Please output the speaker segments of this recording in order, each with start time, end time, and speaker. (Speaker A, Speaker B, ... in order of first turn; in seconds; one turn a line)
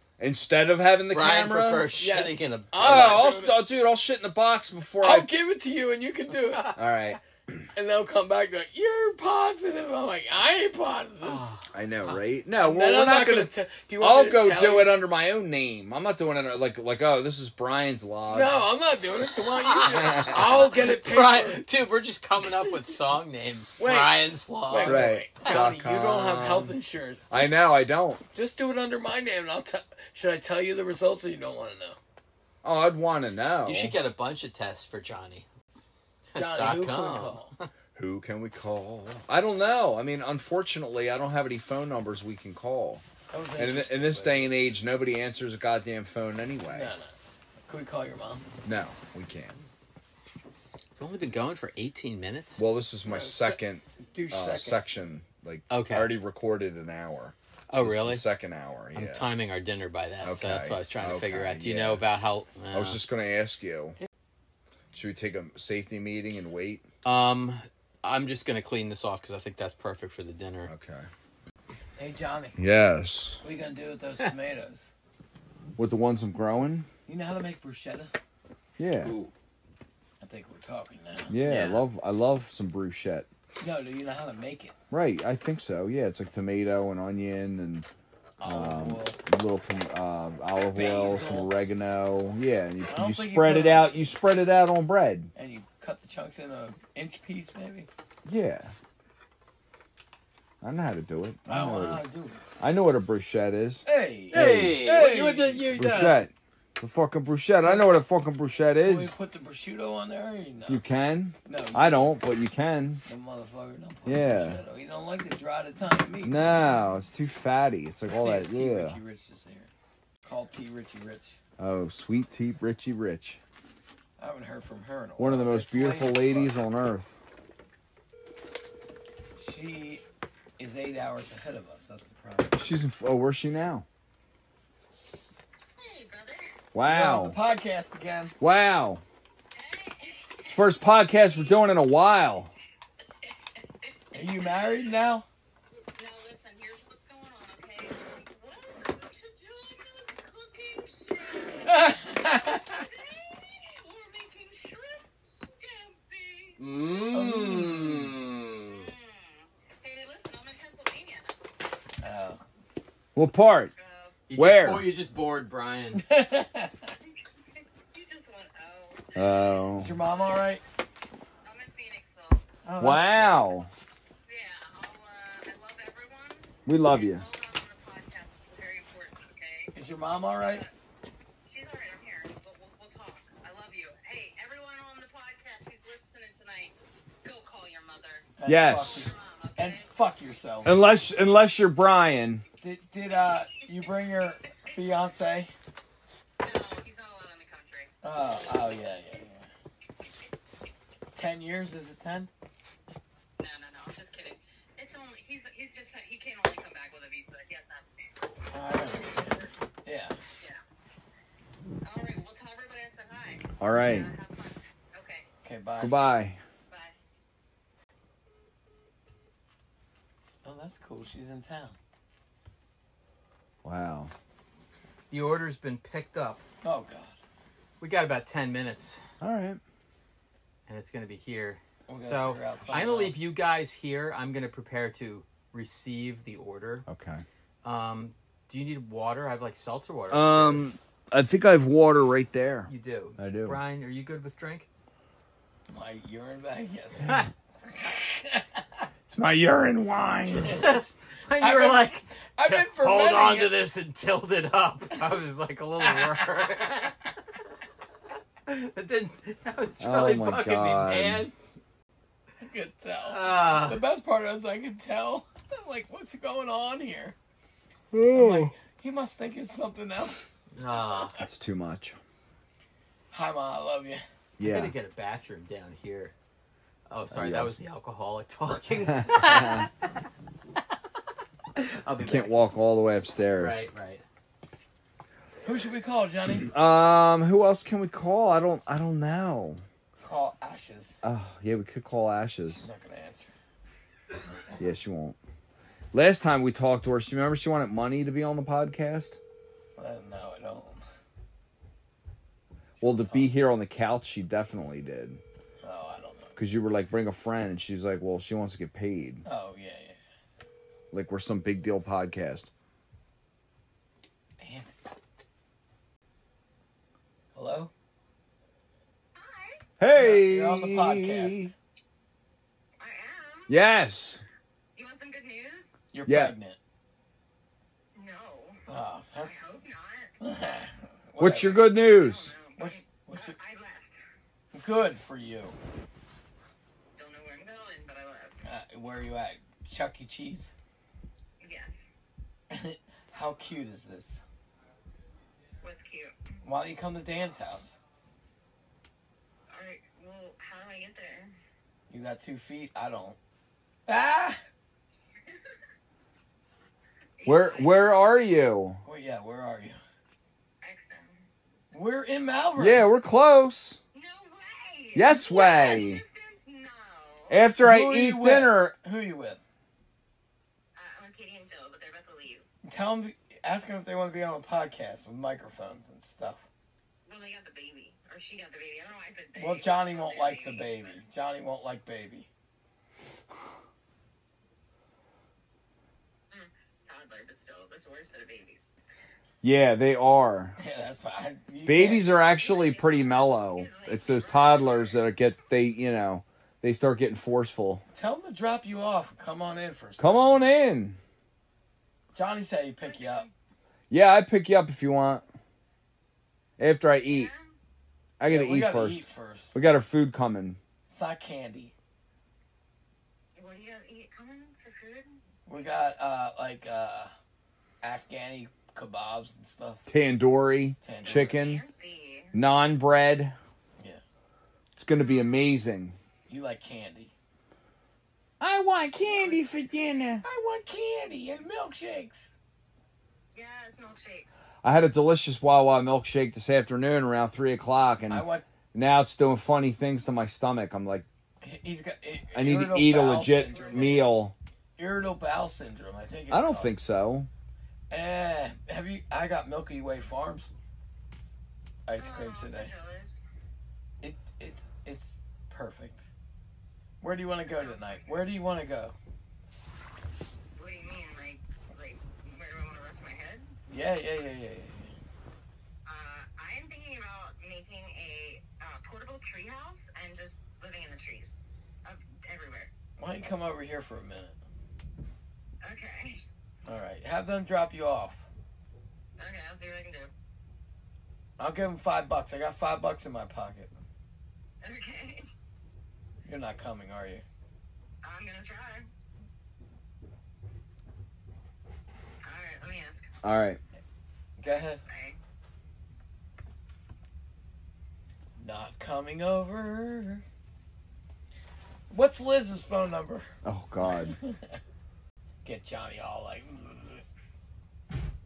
Speaker A: 0.2-1.9
Speaker B: 1.1-3.3
Speaker C: 1.9-3.6
Speaker A: 2.8-5.3
Speaker C: 5.0-6.8
Speaker A: 6.7-7.6
Speaker C: 7.7-11.4
Speaker B: 11.2-11.7
Speaker A: 11.7-18.6
Speaker C: 12.6-14.9
Speaker C: 18.3-21.6
Speaker B: 19.6-25.2
Speaker A: 19.9-20.4
Speaker C: 23.8-27.4
Speaker A: 24.8-26.8
Speaker A: 27.3-28.2
Speaker C: 28.3-32.0
Speaker A: 32.6-34.0
Speaker B: 33.6-35.5
Speaker B: 36.3-37.7
Speaker C: 36.3-37.5
Speaker A: 37.9-43.0
Speaker C: 43.3-44.6
Speaker A: 43.5-46.9
Speaker C: 46.7-47.1
Speaker C: 47.6-48.5
Speaker A: 48.6-49.6
Speaker B: 51.0-52.6
Speaker A: 52.6-59.3
Speaker C: 53.0-54.8
Speaker B: 55.7-56.2
Speaker B: 57.7-58.2
Speaker B: 58.9-63.0
Speaker A: 60.2-62.0
Speaker A: 62.7-64.0
Speaker A: 64.9-66.8
Speaker B: 67.0-70.7
Speaker A: 70.7-71.1
Speaker C: 72.0-72.6
Speaker A: 72.6-73.4
Speaker C: 73.4-74.9
Speaker A: 75.8-76.9
Speaker C: 77.1-78.1
Speaker A: 78.8-79.1
Speaker B: 79.0-79.3
Speaker C: 80.2-81.4
Speaker A: 81.3-83.3
Speaker B: 81.4-81.8
Speaker C: 83.6-84.7
Speaker A: 84.9-87.9
Speaker C: 88.4-89.2
Speaker A: 88.4-95.3
Speaker C: 90.7-91.5
Speaker C: 92.8-94.0
Speaker C: 95.3-97.9
Speaker A: 98.2-98.7
Speaker A: 100.6-102.0
Speaker C: 101.5-102.4
Speaker A: 102.6-104.8
Speaker C: 103.8-105.7
Speaker B: 104.3-106.2
Speaker A: 105.7-109.1
Speaker C: 107.6-107.9
Speaker C: 108.8-110.8
Speaker A: 110.7-113.0
Speaker C: 111.4-112.1
Speaker C: 113.0-116.7
Speaker A: 114.0-114.6
Speaker A: 116.2-119.0
Speaker C: 118.1-119.7
Speaker C: 120.2-121.4
Speaker A: 121.6-123.4
Speaker C: 124.2-126.5
Speaker A: 125.2-127.1
Speaker C: 129.4-130.0
Speaker C: 130.6-132.6
Speaker A: 132.5-133.8
Speaker C: 134.9-135.4
Speaker D: 135.8-136.6
Speaker A: 136.7-137.4
Speaker C: 136.8-138.3
Speaker A: 138.4-139.0
Speaker D: 139.5-140.6
Speaker A: 140.5-142.5
Speaker D: 143.8-144.8
Speaker C: 144.1-145.2
Speaker D: 146.0-156.6
Speaker C: 151.6-152.8
Speaker B: 156.6-158.9
Speaker C: 157.1-158.1
Speaker D: 158.6-161.4
Speaker C: 162.0-162.4
Speaker A: 163.2-163.7
Speaker D: 163.8-164.2
Speaker B: 164.3-166.0
Speaker A: 164.3-164.9
Speaker C: 165.9-166.9
Speaker D: 167.9-169.6
Speaker A: 169.1-169.9
Speaker C: 169.8-170.6
Speaker D: 171.4-172.4
Speaker C: 172.6-173.4
Speaker A: 172.8-173.7
Speaker D: 174.3-179.7
Speaker A: 176.7-177.2
Speaker C: 179.7-180.6
Speaker D: 180.3-180.7
Speaker D: 181.4-188.3
Speaker C: 188.4-190.8
Speaker A: 188.4-189.1
Speaker D: 188.9-189.9
Speaker A: 190.6-192.4
Speaker C: 192.6-195.5
Speaker D: 196.4-197.9
Speaker C: 198.0-199.5
Speaker C: 201.1-202.3
Speaker D: 203.4-208.1
Speaker C: 208.5-210.2
Speaker D: 208.8-209.5
Speaker D: 211.8-215.3
Speaker A: 213.6-214.1
Speaker C: 215.4-216.0
Speaker A: 215.8-216.4
Speaker D: 216.7-216.9
Speaker C: 220.4-221.8
Speaker A: 223.6-224.1
Speaker B: 225.1-226.4
Speaker C: 226.6-227.2
Speaker B: 227.8-229.0
Speaker A: 229.2-229.6
Speaker B: 230.7-236.8
Speaker C: 231.9-233.2
Speaker A: 236.9-237.2
Speaker B: 237.6-240.7
Speaker A: 240.1-243.6
Speaker B: 242.7-244.7
Speaker C: 245.7-247.2
Speaker C: 247.8-248.4
Speaker A: 249.1-250.6
Speaker B: 250.4-256.9
Speaker C: 251.4-253.7
Speaker C: 255.8-256.2
Speaker B: 258.4-261.3
Speaker A: 259.8-261.3
Speaker C: 262.4-267.1
Speaker B: 263.0-263.8
Speaker A: 267.9-268.5
Speaker C: 268.1-270.2
Speaker B: 270.6-271.2
Speaker A: 271.2-272.0
Speaker C: 273.1-274.0
Speaker A: 274.4-274.7
Speaker B: 274.4-276.1
Speaker B: 276.9-279.7
Speaker A: 277.1-277.6
Speaker A: 278.8-279.7
Speaker B: 281.5-282.4
Speaker A: 282.0-283.7
Speaker B: 283.4-284.0
Speaker C: 285.4-286.5
Speaker A: 286.4-289.6
Speaker C: 290.0-291.0
Speaker A: 291.0-292.7
Speaker C: 292.5-293.3
Speaker A: 294.6-295.2
Speaker A: 295.9-299.2
Speaker C: 299.8-300.8
Speaker C: 302.8-303.3
Speaker A: 302.8-305.2
Speaker C: 305.6-306.4
Speaker A: 306.4-309.2
Speaker C: 309.2-310.0
Speaker A: 310.9-312.5
Speaker C: 314.4-314.7
Speaker C: 317.3-317.7
Speaker D: 319.1-319.6
Speaker A: 319.8-321.5
Speaker C: 319.9-321.5
Speaker D: 322.8-323.5
Speaker A: 323.5-324.2
Speaker D: 324.8-325.7
Speaker C: 325.9-326.6
Speaker A: 326.1-326.3
Speaker D: 327.9-328.6
Speaker C: 328.7-329.4
Speaker D: 329.2-330.1
Speaker C: 330.2-331.7
Speaker A: 331.2-332.3
Speaker D: 331.7-334.0
Speaker C: 332.6-333.4
Speaker C: 334.5-335.6
Speaker D: 336.9-338.4
Speaker C: 338.4-340.5
Speaker D: 341.4-341.8
Speaker C: 342.5-344.2
Speaker D: 345.6-346.1
Speaker C: 346.4-347.8
Speaker D: 349.5-351.3
Speaker C: 351.9-353.2
Speaker C: 353.9-354.4
Speaker D: 357.2-358.1
Speaker A: 357.2-358.8
Speaker C: 358.8-359.8
Speaker D: 360.6-361.1
Speaker C: 361.7-362.9
Speaker A: 362.6-363.8
Speaker D: 363.9-367.4
Speaker A: 364.9-366.0
Speaker A: 367.3-368.8
Speaker C: 367.6-369.4
Speaker D: 370.8-372.4
Speaker C: 372.6-376.5
Speaker D: 377.1-381.0
Speaker C: 379.4-382.3
Speaker D: 386.3-388.6
Speaker A: 389.4-390.6
Speaker C: 390.6-392.2
Speaker A: 391.6-397.8
Speaker D: 392.2-395.0
Speaker C: 397.9-400.3
Speaker A: 400.0-401.0
Speaker C: 402.1-403.3
Speaker D: 402.8-403.3
Speaker A: 403.9-405.2
Speaker A: 406.6-407.3
Speaker D: 407.0-407.5
Speaker A: 408.2-410.6
Speaker C: 408.2-409.6
Speaker C: 410.9-411.7
Speaker D: 413.4-415.2
Speaker C: 415.4-417.1
Speaker C: 417.8-419.8
Speaker A: 419.9-421.6
Speaker C: 420.8-421.3
Speaker D: 421.0-422.3
Speaker A: 422.3-423.4
Speaker A: 424.8-425.9
Speaker D: 424.9-425.5
Speaker C: 426.3-427.1
Speaker A: 428.4-430.2
Speaker C: 430.2-432.3
Speaker D: 433.3-434.4
Speaker A: 434.6-441.1
Speaker C: 438.1-438.4
Speaker C: 441.4-444.1
Speaker A: 442.3-444.3
Speaker D: 443.4-444.1
Speaker C: 444.8-446.8
Speaker A: 446.3-447.3
Speaker C: 447.9-450.5
Speaker C: 451.9-452.7
Speaker D: 451.9-453.1
Speaker C: 454.0-456.1
Speaker C: 457.0-458.9
Speaker D: 457.5-458.0
Speaker D: 460.6-463.5
Speaker C: 463.7-464.9
Speaker D: 465.9-472.7
Speaker C: 473.0-474.4
Speaker D: 475.6-476.2
Speaker C: 476.6-478.2
Speaker D: 479.2-480.1
Speaker C: 481.4-483.7
Speaker D: 484.6-485.2
Speaker C: 486.2-487.2
Speaker D: 488.0-488.9
Speaker D: 492.2-493.1
Speaker A: 493.2-493.6
Speaker C: 494.4-494.8
Speaker D: 494.9-495.2
Speaker C: 498.4-500.2
Speaker C: 501.9-503.3
Speaker A: 503.4-504.2
Speaker C: 504.2-504.6
Speaker C: 505.4-507.0